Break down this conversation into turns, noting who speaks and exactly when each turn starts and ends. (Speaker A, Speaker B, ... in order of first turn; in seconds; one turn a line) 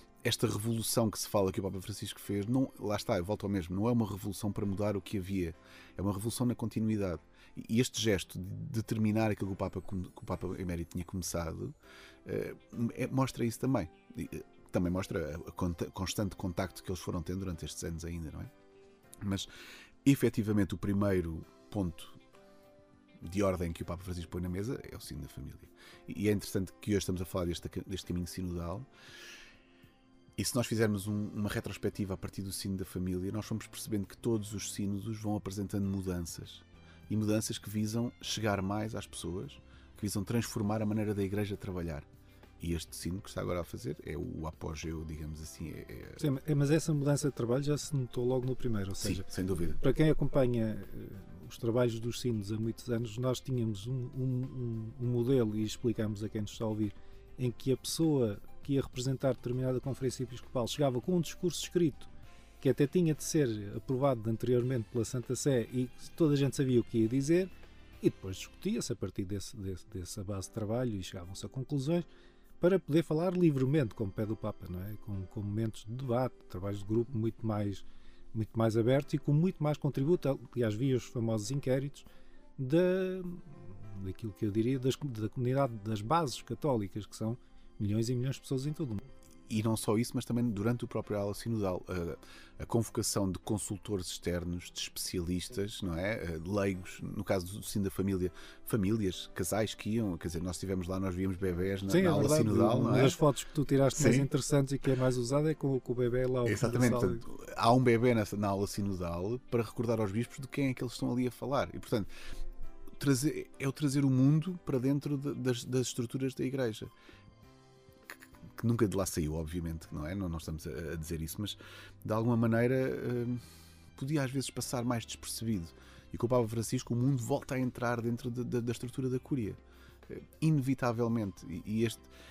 Speaker A: 0.2-18.5
Speaker A: 19.2-19.5
Speaker A: 20.0-22.2
Speaker A: 23.2-28.9
Speaker A: 30.4-42.1
Speaker A: 42.6-46.2
Speaker B: 46.2-49.3
Speaker A: 49.0-49.8
Speaker B: 49.8-62.1
Speaker B: 62.6-72.1
Speaker B: 72.6-89.1
Speaker A: 89.5-103.2
Speaker B: 101.9-107.2
Speaker A: 103.9-104.3
Speaker A: 106.5-112.1
Speaker A: 113.0-116.9
Speaker A: 118.1-132.1